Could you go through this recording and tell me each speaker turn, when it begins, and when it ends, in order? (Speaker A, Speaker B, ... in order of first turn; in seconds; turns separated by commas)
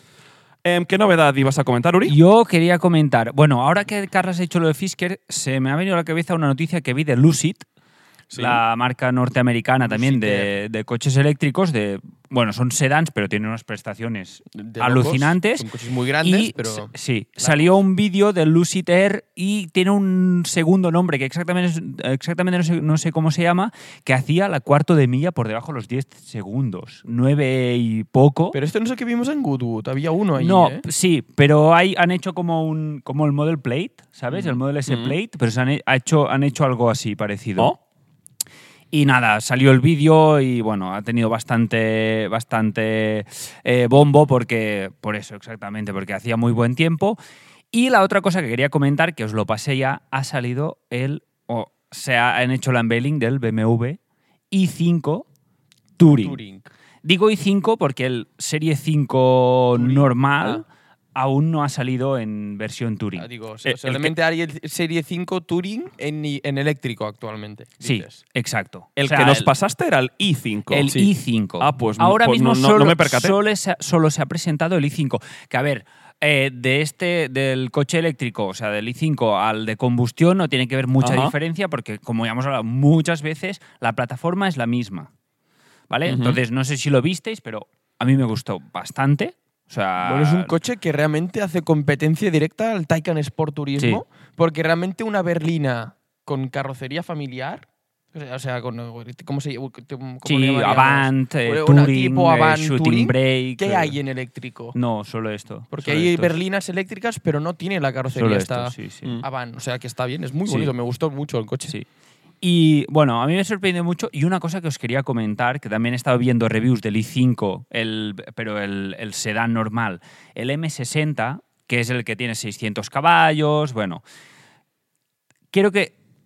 Speaker A: 0.6-2.1, Speaker B: 2.1-7.6, Speaker C: 8.3-8.6, Speaker B: 8.3-15.7, Speaker C: 9.9-10.5, Speaker C: 14.6-17.7, Speaker B: 16.2-28.6, Speaker C: 28.5-30.8, Speaker B: 30.4-37.7, Speaker A: 34.9-35.1, Speaker B: 38.9-47.2, Speaker B: 47.7-54.0, Speaker B: 54.5-55.2, Speaker B: 56.0-56.4, Speaker C: 56.0-56.7, Speaker B: 57.0-63.3, Speaker C: 59.7-60.6, Speaker C: 63.1-68.2, Speaker A: 63.6-64.1, Speaker B: 67.8-69.5, Speaker A: 69.0-70.9, Speaker B: 70.7-85.1, Speaker A: 71.6-73.4, Speaker A: 81.0-81.3, Speaker B: 85.9-90.5, Speaker A: 86.0-86.4, Speaker C: 90.0-104.7, Speaker B: 100.2-104.0, Speaker B: 104.7-106.3, Speaker C: 105.7-111.7, Speaker B: 108.1-109.1, Speaker B: 110.5-110.7, Speaker B: 112.4-124.0, Speaker B: 125.5-125.9